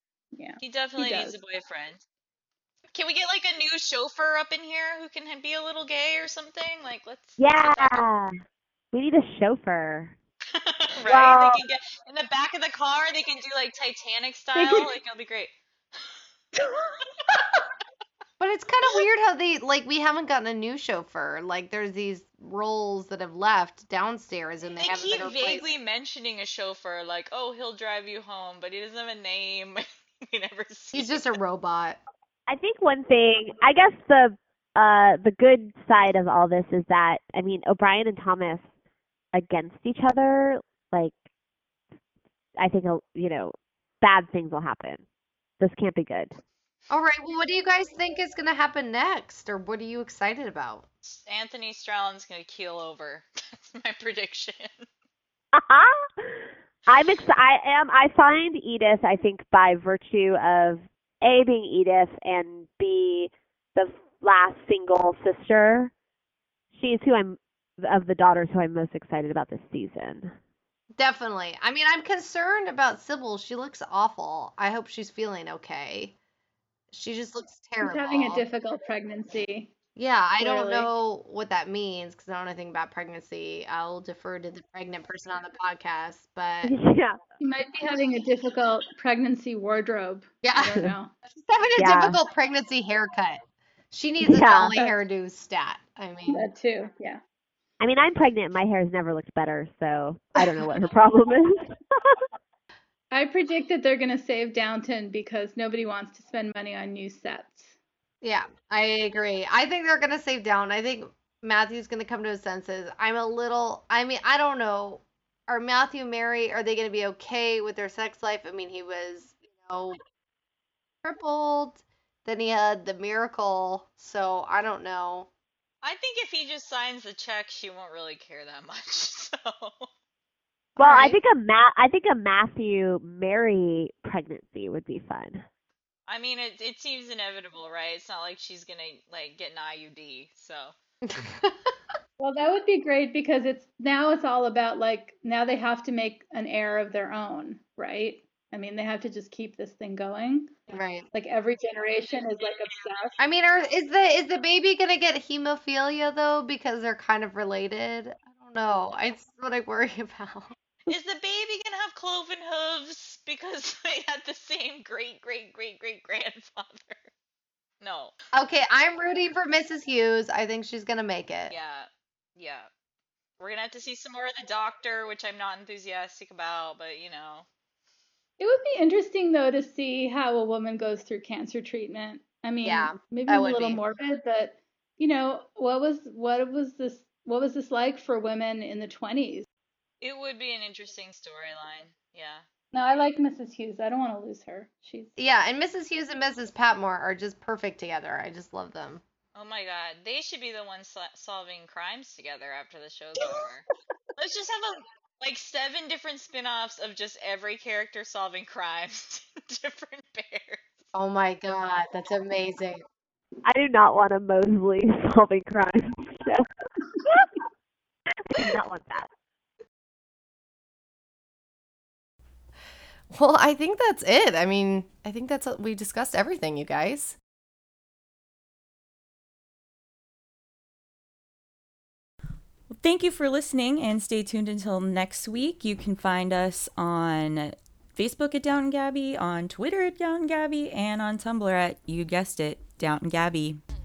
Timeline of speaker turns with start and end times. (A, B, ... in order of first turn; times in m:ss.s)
0:00.4-0:01.4 A
0:00.6-0:02.0 B
0:02.9-0:08.0 B
0:07.4-0:08.3 C
0:08.9-0:10.2 C
0:10.6-0:16.0 B
0:11.0-0:11.6 C
0:14.6-0:14.9 C
0:18.4-0:25.7 D
0:24.8-0:31.4 B
0:30.9-0:32.0 D
0:32.5-0:38.7 C
0:39.3-0:41.2 C
0:42.6-0:45.0 C
0:45.6-0:46.4 C
0:46.9-0:50.9 D
0:51.1-0:54.9 B
0:55.5-1:05.9 C
1:06.7-1:10.3 C
1:11.0-1:16.2 D
1:16.9-1:18.4 D
1:17.8-1:19.7 A
1:20.0-1:26.7 D
1:20.4-1:20.9 A
1:26.6-1:27.2 C
1:27.4-1:31.1 A
1:30.4-1:36.5 D
1:31.8-1:32.2 C
1:34.2-1:34.8 C
1:36.3-1:37.2 A
1:37.8-1:42.3 C
1:43.1-1:47.7 A
1:48.2-2:00.0 D
2:01.0-2:05.3 D
2:05.8-2:09.9 B
2:10.8-2:11.2 D
2:10.8-2:15.4 C
2:16.1-2:20.7 B
2:21.1-2:21.7 D
2:22.2-2:30.5 A
2:30.7-2:31.1 D
2:31.1-2:33.2 A
2:33.2-2:40.6 D
2:40.9-2:47.1 B
2:47.8-2:48.1 B
2:48.3-2:51.6 D
2:51.5-2:52.7 B
2:53.4-2:57.5 B
2:58.4-3:09.5 A
3:02.6-3:03.8 D
3:10.0-3:12.4 B
3:12.7-3:15.1 A
3:15.2-3:19.0 D
3:19.4-3:23.7 B
3:24.2-3:30.7 B
3:31.0-3:32.8 D
3:33.4-3:36.4 C
3:38.3-3:39.1 C
3:43.1-3:47.2 D
3:52.7-4:03.6 E